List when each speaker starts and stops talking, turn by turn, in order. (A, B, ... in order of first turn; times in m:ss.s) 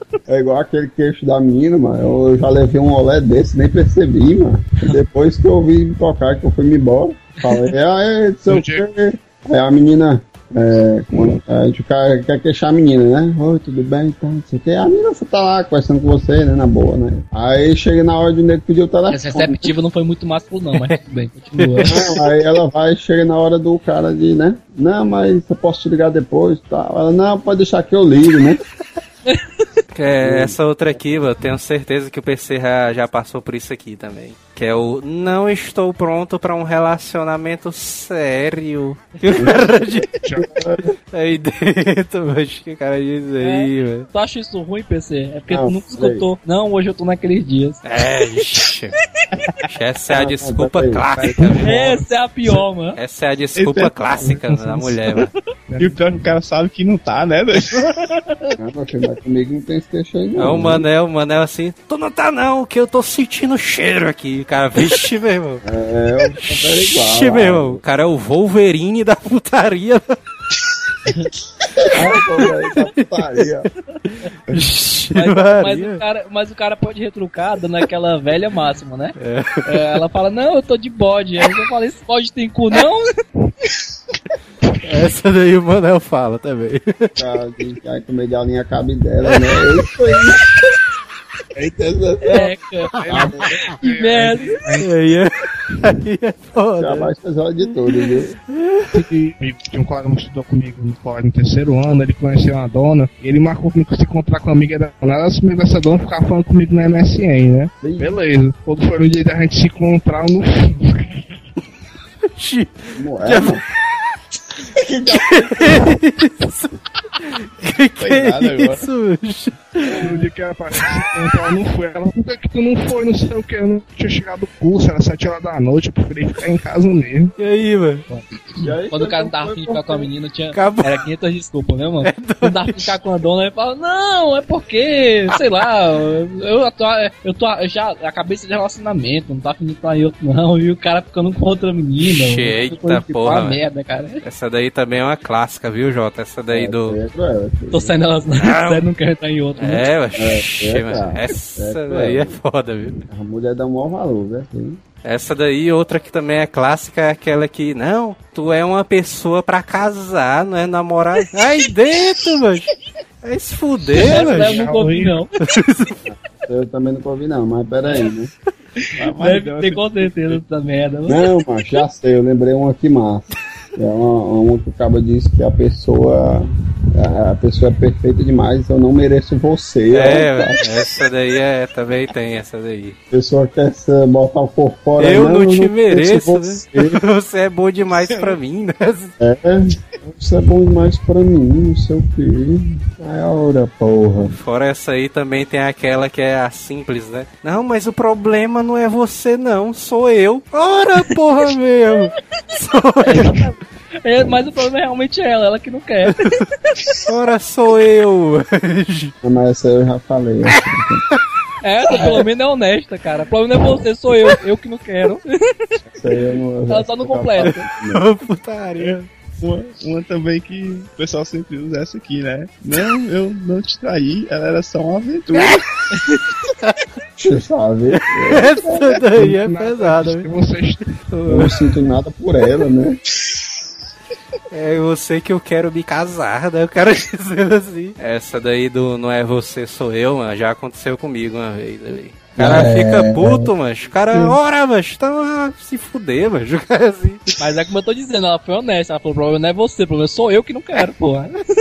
0:00.3-0:19.7 A
0:08.5-0:08.8 B
0:19.1-0:21.9 C
0:21.6-0:22.2 D
0:21.8-0:28.6 A
0:30.0-0:40.1 D
0:30.2-0:30.6 A
0:40.2-0:40.9 B
0:40.4-0:40.8 A
0:41.1-0:44.1 D
0:43.4-0:47.8 C
0:45.5-0:46.2 A
0:47.8-0:49.0 D
0:49.6-0:52.0 D
0:50.1-0:51.0 A
0:51.1-0:52.0 B
0:51.6-0:53.0 C
0:53.0-0:55.3 D
0:53.6-0:54.0 E
0:54.2-0:56.0 B
0:55.8-0:57.8 E
0:58.6-1:00.9 A
1:00.4-1:05.6 D
1:05.6-1:07.8 A
1:06.4-1:10.2 D
1:11.8-1:13.7 A
1:12.9-1:13.5 D
1:14.1-1:16.0 D
1:15.1-1:19.1 C
1:19.2-1:20.0 D
1:19.7-1:23.1 C
1:24.8-1:27.2 D
1:27.2-1:30.4 A
1:31.6-1:32.5 A
1:32.2-1:33.0 C
1:33.0-1:34.9 B
1:33.1-1:33.6 A
1:33.8-1:34.6 C
1:34.8-1:37.1 D
1:36.8-1:38.4 A
1:38.0-1:38.9 D
1:38.9-1:51.2 B
1:47.8-1:48.2 A
1:52.4-1:53.6 D
1:53.0-1:53.6 A
1:54.7-1:56.0 A
1:55.1-2:00.1 D
1:58.0-1:58.9 E
2:00.0-2:07.3 B
2:07.4-2:08.0 D
2:08.6-2:10.1 A
2:08.9-2:24.2 C
2:10.5-2:11.0 D
2:12.0-2:12.9 D
2:22.0-2:23.6 D
2:24.2-2:27.0 D
2:26.5-2:28.0 A
2:27.7-2:29.8 C
2:28.4-2:28.9 D
2:29.6-2:33.0 D
2:30.2-2:32.4 A
2:33.1-2:34.8 A
2:35.0-2:42.7 D
2:43.2-2:44.7 D
2:44.0-2:45.2 B
2:44.0-2:45.3 C
2:45.4-2:46.0 D
2:46.1-2:48.3 A
2:49.0-2:50.4 E
2:49.2-2:51.2 C
2:51.1-3:00.7 A
2:59.9-3:03.0 D
3:03.1-3:07.0 A
3:05.0-3:09.1 D
3:08.1-3:08.4 E
3:09.2-3:14.3 A
3:14.3-3:23.4 D
3:23.0-3:26.4 C
3:27.1-3:29.1 D
3:29.2-3:31.0 A
3:31.6-3:35.8 C
3:31.9-3:32.3 A
3:35.9-3:38.0 A
3:36.7-3:37.6 C
3:37.4-3:39.1 D
3:39.4-3:45.6 E
3:47.2-3:49.0 A
3:47.9-3:50.3 D
3:49.1-3:50.8 B
3:51.1-3:51.7 D
3:51.3-3:53.0 A
3:54.5-4:07.3 D
4:02.4-4:03.5 A
4:04.1-4:04.4 A
4:07.4-4:11.4 C